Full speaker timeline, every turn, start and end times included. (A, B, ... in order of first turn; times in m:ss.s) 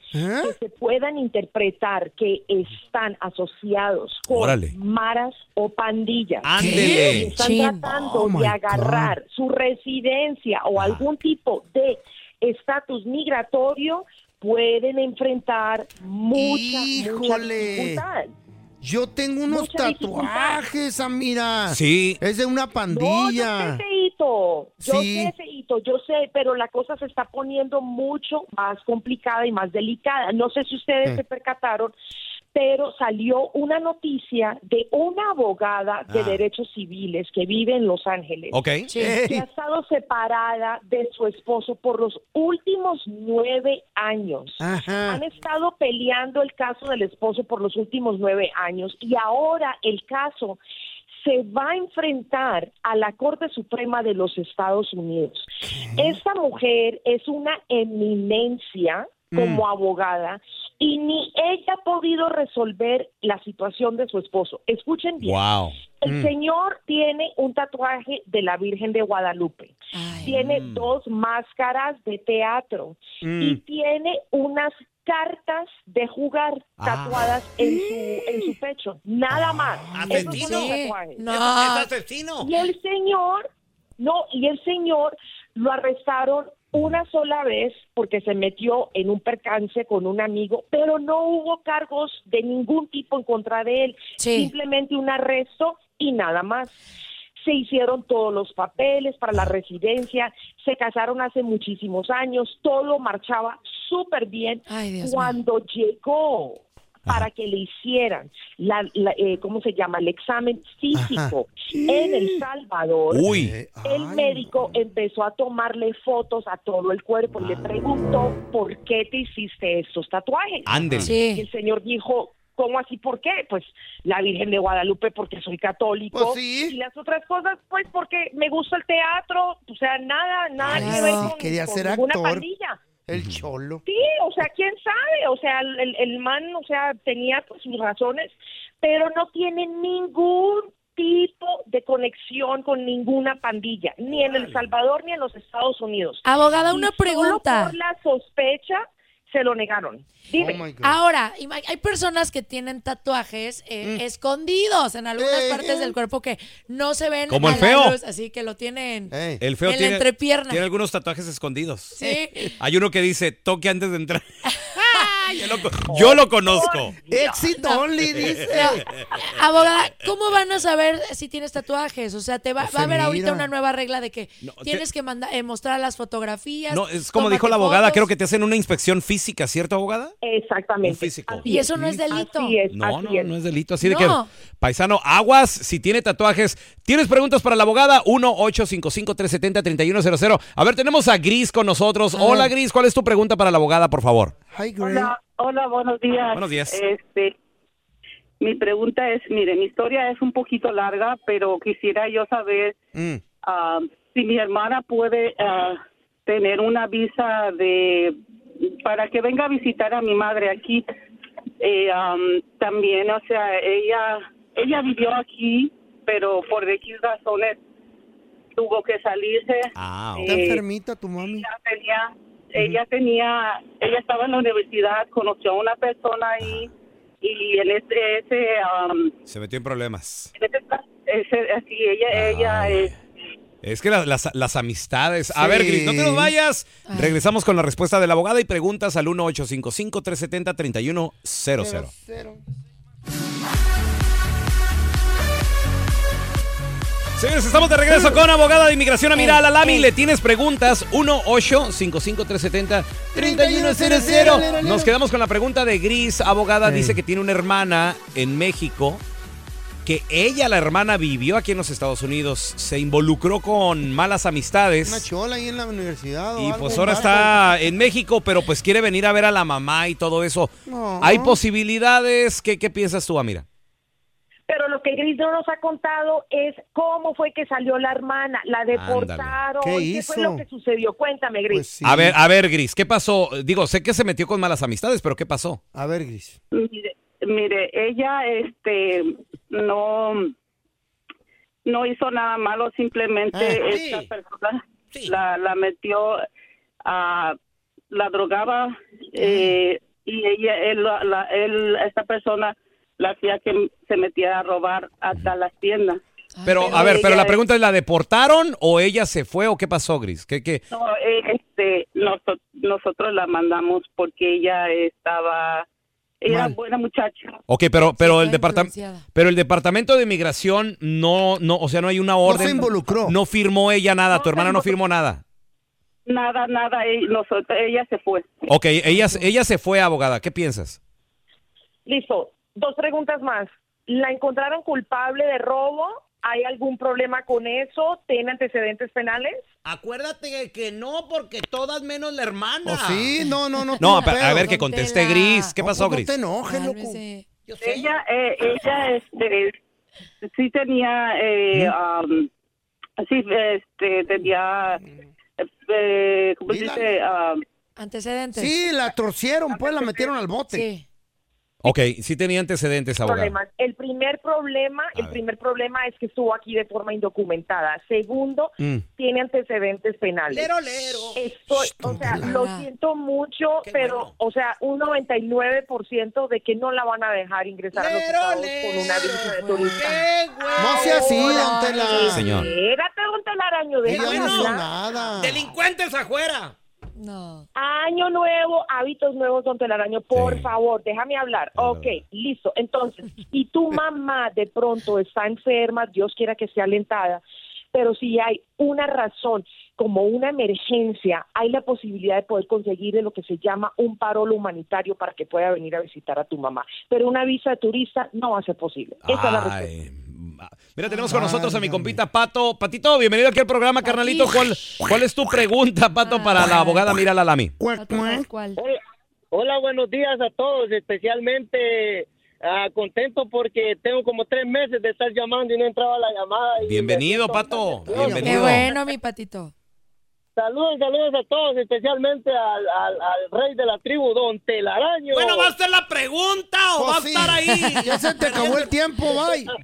0:00.1-0:00.6 A
0:00.4-0:18.3 B
0:04.3-0:04.7 C
0:06.4-0:07.3 C
0:06.6-0:07.3 A
0:07.4-0:07.8 D
0:07.8-0:09.2 A
0:10.8-0:11.0 C
0:16.3-0:18.0 A
0:18.8-0:23.8 A
0:19.5-0:20.6 B
0:21.7-0:22.2 C
0:22.9-0:31.9 B
0:24.8-0:25.3 A
0:32.5-0:38.6 B
0:36.1-0:36.4 C
0:38.5-0:38.8 C
0:38.9-0:39.2 D
0:39.0-0:39.4 A
0:39.2-0:50.6 B
0:44.6-0:45.2 A
0:51.2-1:05.4 B
0:55.6-0:56.2 A
0:59.3-0:59.6 A
1:05.2-1:05.8 C
1:06.0-1:21.2 B
1:06.0-1:06.3 A
1:09.9-1:10.3 D
1:10.3-1:10.9 C
1:13.2-1:13.6 A
1:16.8-1:17.3 C
1:17.6-1:18.5 A
1:19.3-1:20.4 A
1:19.9-1:20.7 C
1:20.0-1:21.9 D
1:21.3-1:22.5 C
1:22.4-1:23.5 B
1:24.0-1:36.7 B
1:34.2-1:34.5 D
1:37.4-1:53.2 B
1:44.7-1:45.4 D
1:50.9-1:52.4 A
1:53.1-1:53.5 C
1:53.3-1:54.7 A
1:53.8-2:12.8 B
2:00.7-2:01.1 C
2:01.0-2:01.4 D
2:06.1-2:06.8 A
2:10.6-2:12.4 A
2:10.7-2:11.3 D
2:13.1-2:13.8 A
2:13.1-2:13.4 C
2:13.8-2:30.6 B
2:24.1-2:24.6 C
2:26.2-2:27.7 D
2:30.4-2:31.0 A
2:30.8-2:40.6 D
2:35.2-2:36.0 A
2:37.3-2:38.0 C
2:37.4-2:37.7 A
2:39.1-2:39.4 A
2:39.4-2:42.0 C
2:42.0-2:42.5 D
2:42.6-2:44.2 C
2:44.7-2:46.9 C
2:44.9-2:45.4 D
2:45.9-2:46.9 B
2:47.0-2:48.9 A
2:47.6-2:47.8 D
2:48.2-2:49.1 C
2:48.5-2:58.1 D
2:52.6-2:53.5 A
2:54.4-2:54.8 C
2:56.7-3:00.1 C
3:00.2-3:03.3 B
3:00.8-3:01.5 C
3:01.4-3:02.6 D
3:02.7-3:14.3 C
3:03.8-3:04.3 D
3:12.2-3:12.5 D
3:14.5-3:15.1 A
3:14.8-3:17.3 E
3:16.3-3:16.8 C
3:18.4-3:22.8 E
3:22.9-3:23.2 A
3:23.4-3:30.8 E
3:31.6-3:37.6 E
3:38.5-3:40.6 E
3:39.8-3:40.5 C
3:40.2-3:41.5 A
3:41.3-3:46.7 E
3:42.6-3:42.8 A
3:47.2-3:49.1 E
3:49.3-3:50.3 C
3:50.4-3:52.9 E
3:52.1-3:52.9 C
3:53.6-4:01.9 C
3:55.3-3:56.3 A
3:56.9-3:57.2 D
4:01.6-4:02.4 A
4:07.2-4:19.0 C
4:09.1-4:09.9 D
4:13.1-4:14.9 A
4:14.3-4:14.6 D
4:16.6-4:17.0 A
4:19.8-4:25.0 C
4:24.8-4:27.6 A
4:26.4-4:33.4 C
4:30.6-4:31.4 A
4:34.5-4:41.6 B
4:38.7-4:39.4 C
4:39.6-4:40.4 A
4:41.5-4:42.2 A
4:41.8-4:45.6 C
4:45.7-4:46.4 A
4:46.5-4:50.3 E
4:51.6-4:56.2 E
4:53.3-4:53.6 A
4:53.7-4:54.1 C
4:56.8-4:57.4 E
4:57.9-5:06.0 E
4:59.2-4:59.5 D
5:06.4-5:06.9 D
5:06.4-5:10.6 C
5:06.6-5:07.4 E
5:10.7-5:15.6 E
5:16.2-5:17.4 E
5:16.3-5:16.5 A
5:17.5-5:25.2 C
5:18.0-5:19.0 D
5:22.2-5:23.2 A
5:26.1-5:28.5 E
5:28.5-5:30.8 C
5:28.9-5:29.2 D
5:31.8-5:39.4 B
5:39.6-5:43.1 C
5:42.6-5:44.5 A
5:43.7-5:45.5 D
5:43.8-5:46.1 C
5:45.6-5:47.0 A
5:46.4-5:47.2 D
5:47.5-5:47.9 C
5:47.6-5:49.6 E
5:50.2-5:52.3 E
5:53.0-5:54.8 E
5:55.4-5:57.4 E
5:56.5-5:56.9 A
5:57.8-5:58.5 D
5:58.3-6:00.6 A
6:00.5-6:00.8 D
6:01.6-6:03.4 C
6:03.0-6:10.5 B
6:08.6-6:08.8 A
6:10.3-6:11.2 C
6:11.1-6:20.0 B
6:11.5-6:12.3 A
6:12.1-6:12.7 D
6:13.6-6:14.1 C
6:17.7-6:22.5 C
6:19.4-6:19.9 D
6:20.5-6:22.3 A
6:20.6-6:24.6 B
6:21.1-6:22.4 D
6:23.8-6:24.6 C
6:23.8-6:25.5 A
6:25.2-6:26.5 C
6:27.0-6:27.4 D
6:27.6-6:37.2 B
6:30.1-6:30.5 C
6:31.6-6:32.0 C
6:37.7-6:49.7 B
6:49.0-6:57.5 C
6:51.1-6:52.0 A
6:53.8-6:54.8 D
6:56.0-6:56.9 D
6:57.6-6:58.3 A
6:57.8-6:58.6 D
6:59.3-7:08.5 F
7:06.6-7:08.7 C
7:07.9-7:08.7 A
7:08.2-7:09.5 D
7:10.4-7:15.5 F
7:15.1-7:18.7 C
7:16.8-7:19.5 A